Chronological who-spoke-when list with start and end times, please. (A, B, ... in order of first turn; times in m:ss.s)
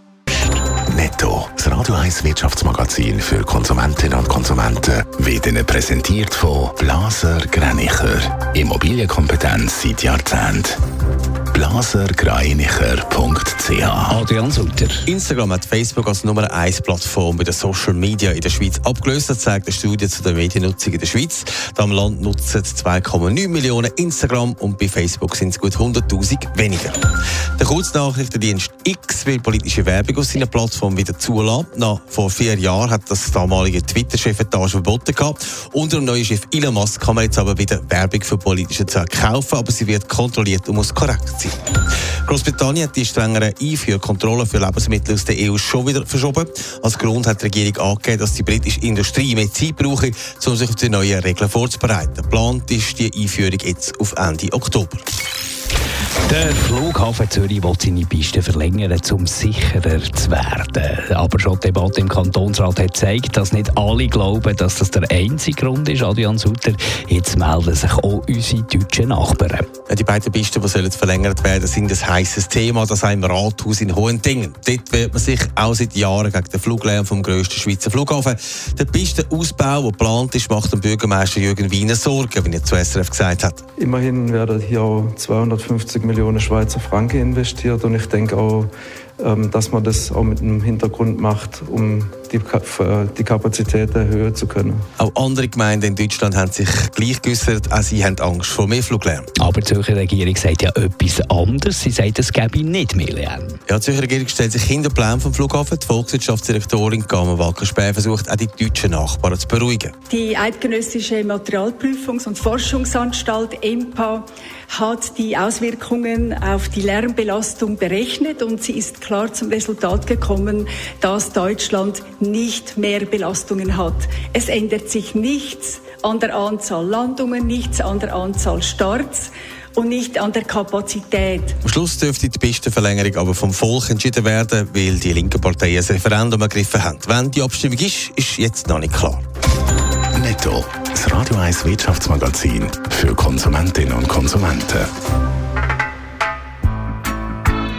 0:00.9-0:10.8 A
0:11.5-0:14.2 A
0:14.1-0:15.1 B
0:15.1-0:27.0 C
0:27.6-0:41.6 C
0:42.3-0:55.0 C
0:56.2-1:09.7 B
1:09.9-1:23.6 C
1:23.8-1:34.9 D
1:35.0-1:39.3 C
1:39.4-1:43.6 B
1:43.7-1:49.9 C
1:50.1-2:11.6 E
2:11.6-2:19.2 C
2:20.2-2:24.9 A